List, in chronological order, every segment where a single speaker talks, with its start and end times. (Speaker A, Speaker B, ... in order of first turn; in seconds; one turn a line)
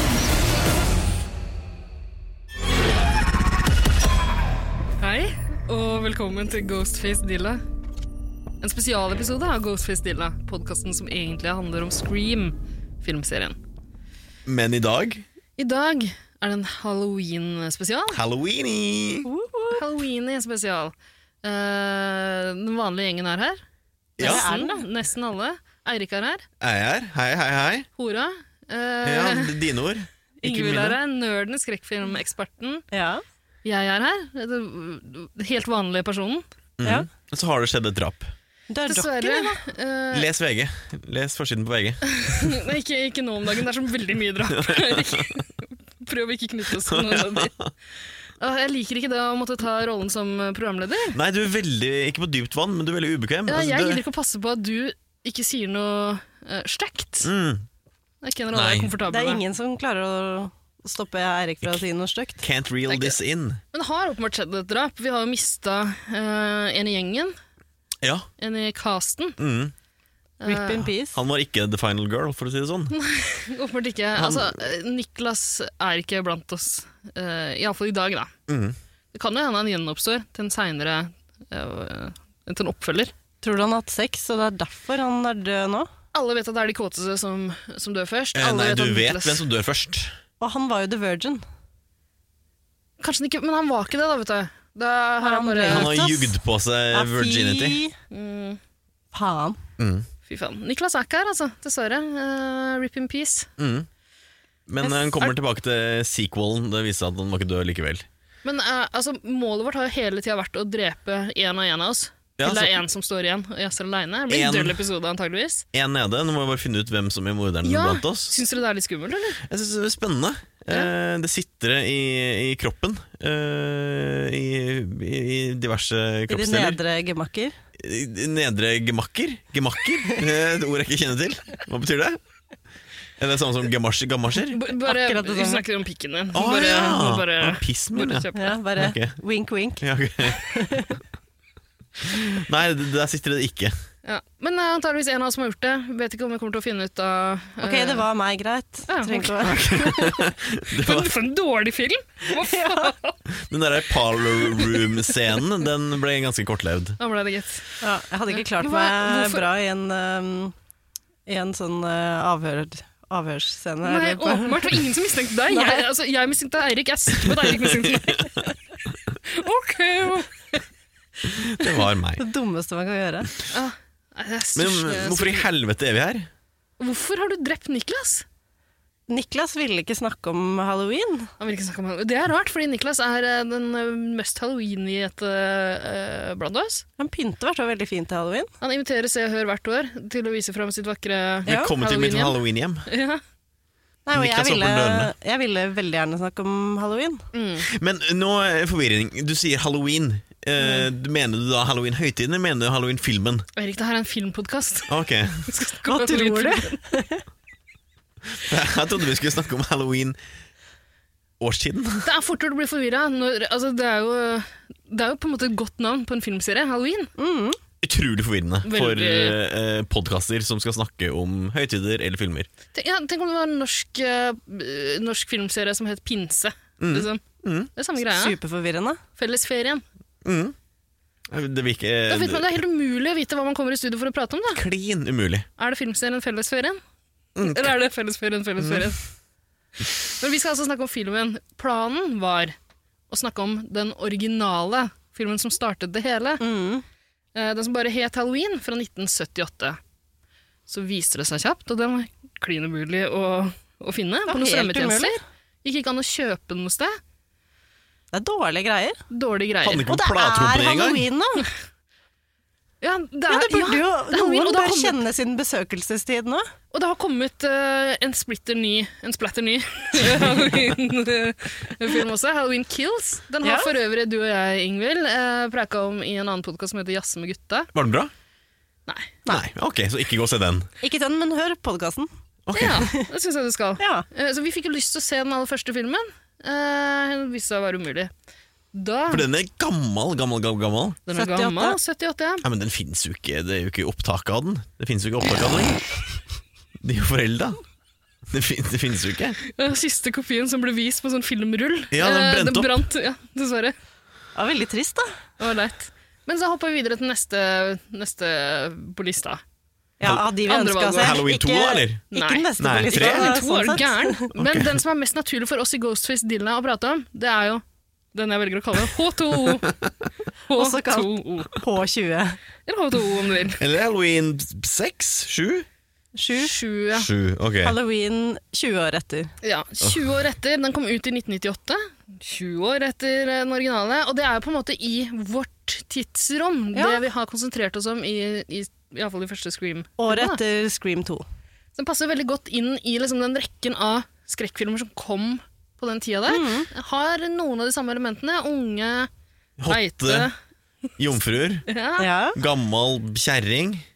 Speaker A: 5.0-7.6
Speaker A: 8.6-13.6
Speaker B: 14.4-15.2
Speaker A: 15.6-18.2
Speaker B: 18.1-19.3
Speaker C: 19.2-19.8
Speaker A: 19.7-23.6
Speaker B: 24.2-24.5
Speaker A: 24.2-26.4
Speaker C: 24.2-24.9
Speaker B: 26.6-27.9
Speaker A: 28.0-29.6
Speaker B: 29.0-31.0
Speaker A: 30.4-32.9
Speaker C: 32.9-33.2
Speaker A: 33.6-36.4
Speaker B: 36.8-38.3
Speaker C: 38.7-39.6
Speaker A: 38.9-40.3
Speaker B: 40.1-42.6
Speaker A: 42.1-47.5
Speaker B: 44.5-45.3
Speaker B: 46.9-47.7
Speaker A: 48.4-51.2
Speaker B: 51.1-54.0
Speaker A: 53.5-57.3
Speaker B: 57.2-57.7
Speaker A: 58.2-59.4
Speaker B: 58.5-58.9
Speaker C: 59.1-62.4
Speaker B: 62.4-63.6
Speaker A: 62.9-63.2
Speaker A: 63.7-67.3
Speaker B: 68.0-68.3
Speaker A: 68.4-69.4
Speaker B: 69.4-69.7
Speaker A: 70.4-70.8
Speaker C: 70.4-71.2
Speaker B: 71.1-72.9
Speaker A: 72.9-78.3
Speaker B: 74.2-74.5
Speaker B: 78.5-78.8
Speaker A: 79.1-83.1
Speaker C: 83.4-85.9
Speaker A: 86.1-89.4
Speaker B: 88.3-90.2
Speaker C: 90.4-91.4
Speaker A: 93.0-96.1
Speaker C: 95.2-96.3
Speaker B: 95.7-97.8
Speaker C: 96.9-98.0
Speaker A: 98.1-98.6
Speaker C: 99.1-99.6
Speaker B: 99.8-100.0
Speaker A: 100.2-103.5
Speaker B: 103.6-103.9
Speaker B: 104.7-108.0
Speaker A: 108.4-115.6
Speaker B: 112.4-112.8
Speaker B: 114.3-114.8
Speaker B: 115.7-118.4
Speaker A: 117.6-119.4
Speaker B: 119.4-126.8
Speaker C: 126.3-127.5
Speaker B: 127.8-132.2
Speaker B: 133.2-134.6
Speaker A: 134.4-138.6
Speaker C: 134.8-135.6
Speaker B: 136.3-139.2
Speaker C: 138.3-140.9
Speaker B: 139.8-140.6
Speaker B: 142.0-143.7
Speaker A: 144.0-148.1
Speaker C: 147.6-150.1
Speaker A: 148.9-153.2
Speaker B: 149.4-151.1
Speaker C: 152.3-152.9
Speaker B: 153.3-157.0
Speaker A: 154.3-154.9
Speaker A: 157.0-157.7
Speaker C: 157.8-160.5
Speaker A: 158.3-159.4
Speaker C: 161.2-164.8
Speaker A: 163.8-168.5
Speaker C: 165.5-165.9
Speaker A: 169.2-170.6
Speaker B: 171.2-172.2
Speaker C: 172.2-173.3
Speaker A: 173.5-175.4
Speaker B: 174.6-176.3
Speaker A: 176.8-178.2
Speaker C: 179.1-181.3
Speaker A: 181.4-186.8
Speaker C: 187.0-188.5
Speaker A: 188.6-193.2
Speaker B: 191.4-192.8
Speaker C: 191.4-191.7
Speaker C: 194.1-197.2
Speaker B: 194.1-195.1
Speaker A: 197.3-197.7
Speaker B: 197.7-203.4
Speaker A: 203.5-206.8
Speaker B: 204.9-205.4
Speaker C: 205.8-207.2
Speaker B: 208.3-210.2
Speaker B: 211.4-212.1
Speaker A: 212.0-217.1
Speaker C: 217.2-217.6
Speaker B: 217.8-222.5
Speaker A: 218.6-219.3
Speaker A: 222.7-227.2
Speaker B: 226.8-227.7
Speaker A: 227.7-228.3
Speaker C: 228.1-229.0
Speaker A: 229.2-229.8
Speaker B: 230.2-230.5
Speaker B: 231.3-232.6
Speaker A: 232.1-234.6
Speaker B: 234.5-235.5
Speaker A: 235.6-236.8
Speaker B: 237.3-237.7
Speaker A: 237.4-239.0
Speaker B: 238.6-238.9
Speaker A: 239.9-242.6
Speaker A: 243.1-246.4
Speaker C: 246.4-246.8
Speaker A: 247.3-249.8
Speaker A: 250.7-257.0
Speaker C: 254.3-255.2
Speaker C: 258.1-259.0
Speaker A: 259.1-259.9
Speaker B: 259.6-261.1
Speaker C: 259.9-261.5
Speaker A: 262.8-265.0
Speaker C: 263.3-266.5
Speaker A: 266.7-277.7
Speaker C: 273.4-273.7
Speaker B: 277.7-278.1
Speaker A: 278.9-279.1
Speaker B: 279.3-280.7
Speaker C: 280.8-282.1
Speaker B: 282.5-282.9
Speaker A: 282.5-288.1
Speaker C: 282.7-283.1
Speaker C: 283.8-284.1
Speaker A: 288.7-289.3
Speaker B: 289.1-291.0
Speaker A: 291.1-292.4
Speaker C: 291.1-291.8
Speaker B: 292.4-296.0
Speaker B: 296.8-297.6
Speaker B: 298.3-299.4
Speaker A: 299.4-303.7
Speaker B: 301.9-302.8
Speaker C: 304.3-305.1
Speaker A: 305.4-309.4
Speaker C: 310.0-314.2
Speaker A: 310.4-311.2
Speaker B: 311.0-312.0
Speaker A: 312.1-319.7
Speaker B: 312.6-313.3
Speaker B: 314.4-314.8
Speaker A: 320.5-321.6
Speaker C: 320.5-322.4
Speaker A: 322.6-323.6
Speaker B: 323.6-325.6
Speaker C: 326.1-326.5
Speaker A: 326.3-327.1
Speaker B: 326.9-327.8
Speaker C: 327.6-329.3
Speaker A: 329.4-340.4
Speaker C: 336.7-337.0
Speaker C: 340.0-341.2
Speaker A: 341.7-349.1
Speaker C: 346.3-346.7
Speaker B: 349.6-350.3
Speaker A: 349.7-350.3
Speaker B: 351.0-351.6
Speaker A: 351.7-352.1
Speaker C: 352.0-352.4
Speaker B: 352.3-353.8